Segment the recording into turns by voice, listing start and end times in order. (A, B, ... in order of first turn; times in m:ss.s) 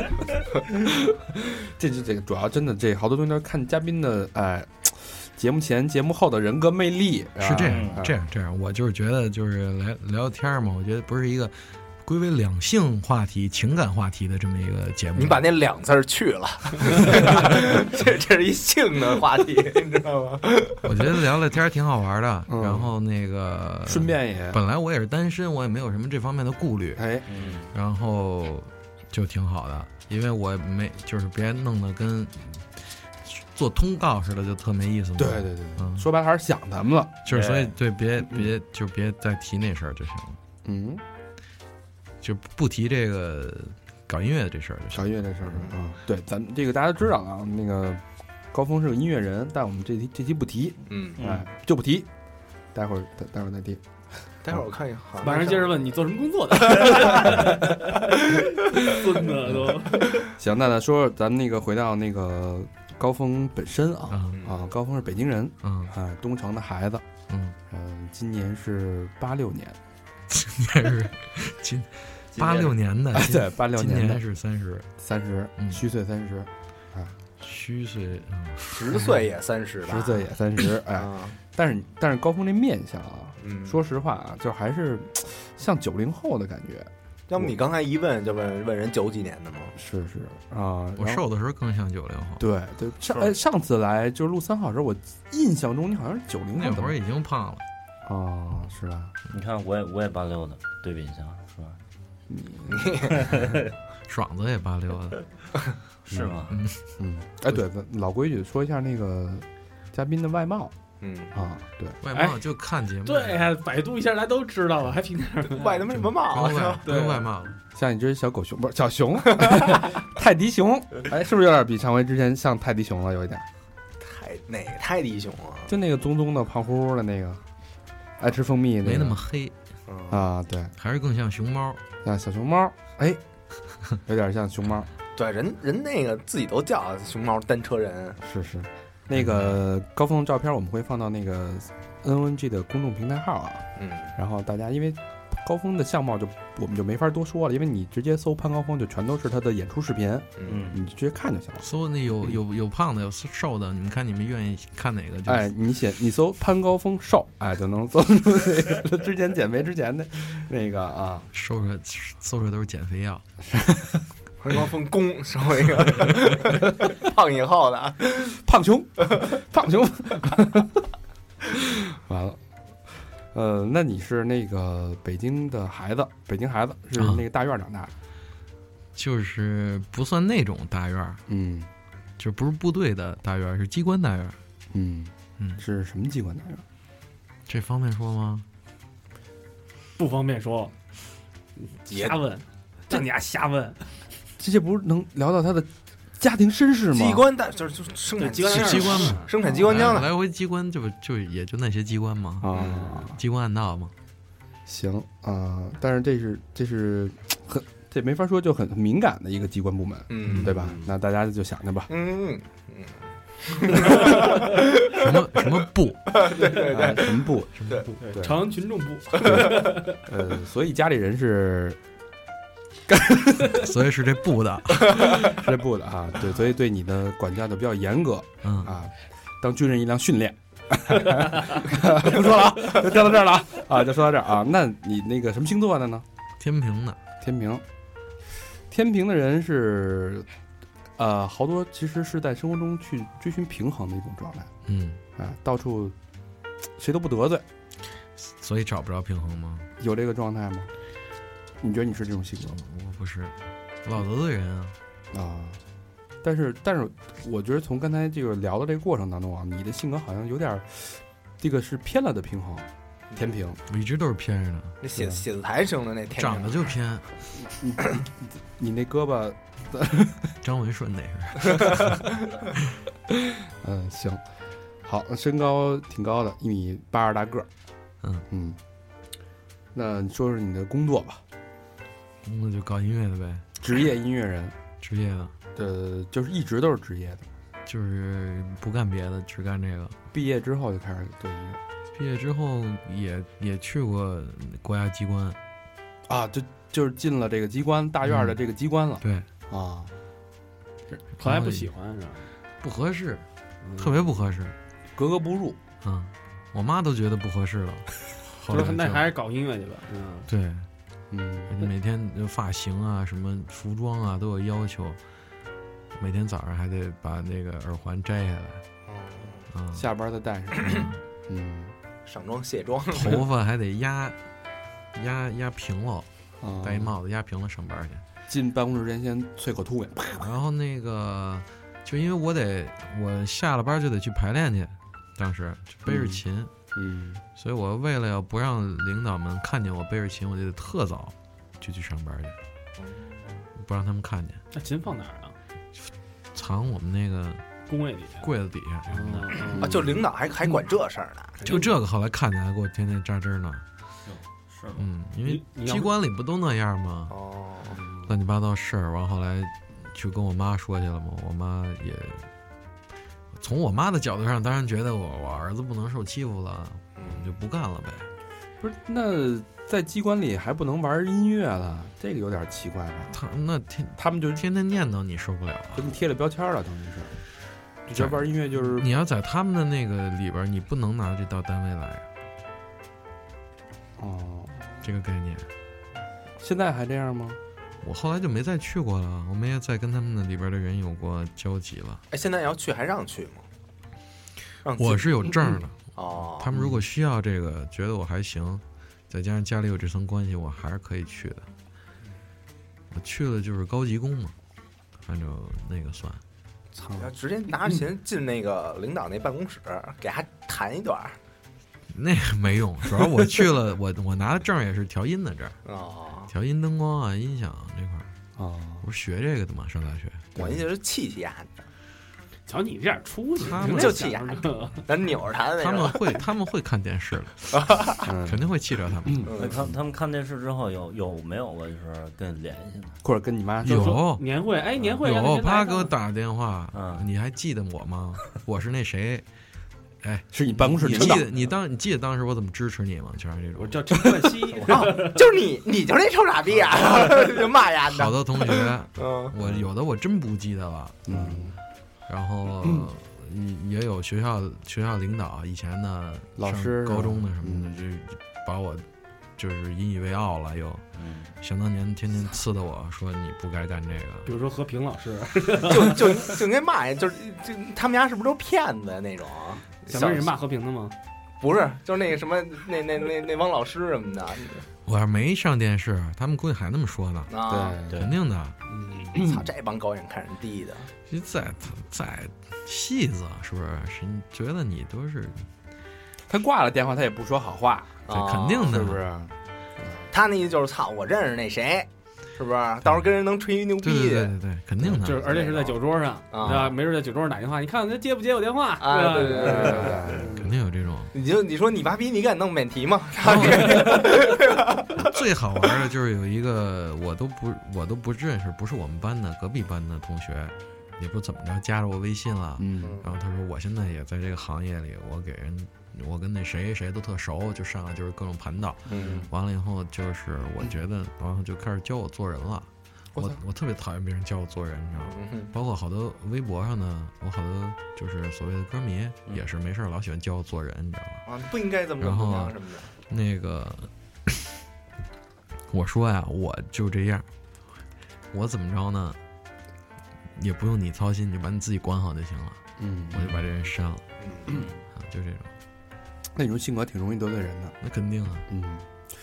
0:00.6-0:08.2 A
0:07.4-0:15.5 B
0:07.6-0:08.0 C
0:15.2-0:21.1 D
0:20.8-0:27.1 B
0:22.5-0:22.9 A
0:23.9-0:24.6 A
0:27.0-0:27.2 A
0:27.3-0:27.7 C
0:27.7-0:36.1 B
0:35.2-0:37.2 A
0:37.2-0:40.4 B
0:37.3-0:37.8 C
0:38.2-0:38.5 A
0:40.6-0:41.0 A
0:42.2-0:45.1 B
0:44.9-0:52.1 A
0:50.9-0:51.2 D
0:51.2-0:51.4 C
0:52.7-0:53.8 A
0:54.4-0:55.7 D
0:55.2-1:00.2 E
1:00.3-1:07.0 A
1:04.1-1:04.4 B
1:04.3-1:04.6 D
1:05.6-1:05.9 B
1:07.3-1:07.6 B
1:07.7-1:09.8 A
1:10.3-1:14.9 B
1:12.4-1:14.2 A
1:15.0-1:17.2 A
1:15.6-1:15.8 B
1:17.4-1:19.3 B
1:18.6-1:20.2 D
1:19.8-1:27.6 A
1:21.0-1:21.4 D
1:23.4-1:23.8 D
1:27.3-1:29.7 D
1:29.8-1:31.2 A
1:31.0-1:32.4 B
1:32.4-1:37.0 A
1:36.6-1:37.6 B
1:38.0-1:39.1 A
1:39.3-1:41.8 C
1:42.3-1:43.6 A
1:42.7-1:43.3 D
1:43.1-1:43.6 C
1:44.1-1:45.2 B
1:46.1-1:46.6 C
1:46.1-1:46.4 A
1:46.5-1:46.8 B
1:47.0-1:50.7 A
1:51.0-1:51.3 D
1:51.3-1:52.0 A
1:52.0-1:53.5 B
1:52.1-1:52.4 E
1:53.0-1:55.8 E
1:55.5-1:56.9 D
1:55.9-1:57.5 B
1:56.8-1:57.3 E
1:57.8-2:03.5 A
1:59.4-1:59.8 D
2:04.0-2:05.7 D
2:05.7-2:07.4 A
2:08.2-2:09.2 A
2:08.8-2:09.5 B
2:10.1-2:10.7 A
2:10.8-2:11.8 B
2:12.0-2:13.2 A
2:14.0-2:14.9 A
2:15.2-2:18.2 D
2:18.2-2:31.6 A
2:19.1-2:19.6 B
2:23.8-2:24.1 D
2:30.4-2:30.6 D
2:30.4-2:30.8 C
2:31.6-2:35.5 B
2:35.2-2:41.3 A
2:41.3-2:43.2 B
2:43.5-2:44.0 A
2:44.4-2:48.4 D
2:48.4-2:50.9 A
2:51.5-2:57.9 A
2:57.0-2:57.2 B
2:59.0-3:01.2 B
3:01.3-3:01.7 A
3:02.2-3:04.4 B
3:04.7-3:06.6 A
3:07.5-3:08.5 B
3:10.0-3:10.7 E
3:11.6-3:13.8 E
3:11.9-3:12.2 D
3:14.4-3:17.3 A
3:16.9-3:20.1 D
3:18.2-3:19.4 E
3:18.5-3:23.9 B
3:22.4-3:23.2 A
3:22.5-3:22.9 D
3:24.7-3:31.9 A
3:30.1-3:30.8 D
3:30.2-3:30.5 B
3:31.9-3:35.1 D
3:34.9-3:36.2 B
3:36.1-3:37.9 D
3:36.7-3:37.5 A
3:37.6-3:37.9 B
3:38.0-3:40.0 E
3:38.1-3:38.4 A
3:39.1-3:41.8 A
3:39.2-3:39.5 D
3:42.9-3:43.7 A
3:43.5-3:45.4 B
3:44.8-3:56.0 A
3:48.4-3:48.7 B
3:56.4-3:57.0 B
3:57.2-3:57.6 A
3:58.7-4:00.3 A
4:01.0-4:04.5 A
4:04.7-4:05.0 B
4:05.2-4:06.0 A
4:06.8-4:07.5 A
4:08.2-4:09.7 B
4:09.8-4:10.7 A
4:11.6-4:12.6 A
4:12.5-4:14.8 B
4:15.1-4:15.6 A
4:16.2-4:23.6 A
4:23.7-4:24.8 B
4:24.8-4:26.7 D
4:24.9-4:25.2 A
4:26.1-4:27.1 B
4:27.4-4:30.3 A
4:30.4-4:32.0 B
4:33.6-4:34.2 A
4:34.8-4:37.5 A
4:38.3-4:38.6 A
4:39.7-4:41.2 A
4:42.2-4:43.4 B
4:43.6-4:44.6 A
4:44.8-4:45.3 B
4:45.6-4:47.3 A
4:47.7-4:50.0 B
4:50.1-4:51.6 A
4:51.9-4:55.4 B
4:56.1-4:59.9 A
4:58.0-4:58.4 B
4:59.0-4:59.3 B
5:01.2-5:02.3 E
5:01.2-5:01.7 B
5:02.6-5:03.2 B
5:03.6-5:04.1 E
5:03.8-5:04.6 B
5:05.0-5:05.6 A
5:05.8-5:09.1 B
5:08.5-5:10.3 E
5:10.3-5:10.7 B
5:11.1-5:11.6 A
5:11.5-5:15.0 B
5:16.0-5:18.6 B
5:18.9-5:19.5 D
5:19.5-5:19.9 B
5:19.7-5:21.7 A
5:20.6-5:21.0 B
5:22.1-5:23.2 D
5:22.9-5:24.2 B
5:24.9-5:26.1 B
5:26.4-5:27.0 A
5:26.6-5:28.0 B
5:28.3-5:30.3 A
5:30.2-5:36.5 B
5:35.9-5:36.2 A
5:36.8-5:37.2 A
5:37.4-5:42.4 B
5:42.8-5:43.5 D
5:43.6-5:44.4 B
5:44.5-5:45.4 E
5:45.8-5:47.4 B
5:47.7-5:48.3 E
5:48.2-5:49.3 B
5:48.9-5:49.8 E
5:49.6-5:51.5 D
5:51.4-5:51.7 E
5:51.4-5:53.6 B
5:54.1-5:54.8 C
5:54.8-5:57.2 B
5:55.2-5:55.9 E
5:57.1-5:57.8 D
5:58.1-6:02.3 B
6:03.4-6:08.1 B
6:07.0-6:07.3 D
6:08.6-6:13.2 A
6:13.1-6:15.9 B
6:14.0-6:14.4 A
6:15.8-6:17.2 A
6:17.9-6:18.9 A
6:17.9-6:22.1 B
6:24.0-6:24.7 A
6:24.8-6:25.5 B
6:26.4-6:27.4 A
6:27.8-6:32.0 B
6:32.1-6:33.4 D
6:34.6-6:36.5 D
6:34.8-6:41.5 B
6:36.5-6:36.8 A
6:42.9-6:44.3 B
6:45.0-6:46.2 B
6:46.7-6:51.2 D
6:51.9-6:55.6 B
6:55.7-6:56.3 D
6:56.3-6:58.1 B
6:58.4-6:58.9 A
6:58.8-7:00.3 B
7:00.4-7:00.6 A
7:00.4-7:01.5 D
7:02.5-7:04.9 E
7:03.4-7:04.1 B
7:03.6-7:06.2 D
7:05.6-7:07.6 B
7:07.5-7:08.0 D
7:08.0-7:08.5 A
7:08.2-7:09.2 B
7:09.0-7:09.3 A
7:09.3-7:09.6 D
7:09.3-7:13.0 C
7:13.0-7:14.0 A
7:13.6-7:14.2 B
7:13.7-7:15.9 E
7:15.0-7:19.2 B
7:16.7-7:17.1 C
7:20.0-7:23.8 B
7:20.3-7:21.3 A
7:23.6-7:25.2 E
7:24.7-7:29.3 D
7:27.9-7:31.4 B
7:31.1-7:31.6 A
7:32.1-7:38.8 B
7:32.6-7:32.9 A
7:36.4-7:37.8 A
7:39.4-7:40.8 B
7:41.0-7:41.3 C
7:41.4-7:44.3 B
7:44.3-7:46.1 E
7:45.7-7:50.3 D
7:49.9-7:51.0 E
7:51.4-7:54.7 D
7:54.9-7:57.3 B
7:57.3-7:57.8 D
7:57.4-7:58.1 A
7:57.9-7:58.2 C
7:58.0-7:58.6 B
7:58.7-7:59.1 E
7:59.1-8:00.9 D
7:59.2-7:59.5 A
8:01.1-8:05.5 B
8:06.3-8:08.0 A
8:08.1-8:08.8 D
8:08.1-8:09.0 B
8:08.6-8:10.1 A
8:10.1-8:14.3 D
8:12.8-8:13.1 B
8:13.8-8:15.3 B
8:14.8-8:15.0 A
8:15.0-8:20.5 E
8:15.2-8:15.8 D
8:16.3-8:16.8 D
8:18.8-8:20.2 D
8:19.3-8:20.3 A
8:20.4-8:21.1 B
8:21.1-8:25.0 D
8:23.2-8:24.1 B
8:23.7-8:24.0 E
8:25.0-8:51.3 B
8:32.6-8:33.0 A
8:32.8-8:33.1 D
8:38.9-8:39.3 D
8:38.9-8:39.3 A
8:43.2-8:43.4 A
8:45.0-8:45.5 D
8:51.3-8:52.9 D
8:52.0-8:52.6 B
8:53.1-8:54.5 B
8:55.7-8:57.3 B
8:58.3-8:59.2 B
9:00.4-9:02.6 B
9:02.8-9:03.4 A
9:03.1-9:04.0 B
9:04.2-9:04.6 D
9:05.0-9:05.5 B
9:06.4-9:07.8 A
9:07.8-9:08.5 B
9:08.5-9:08.9 A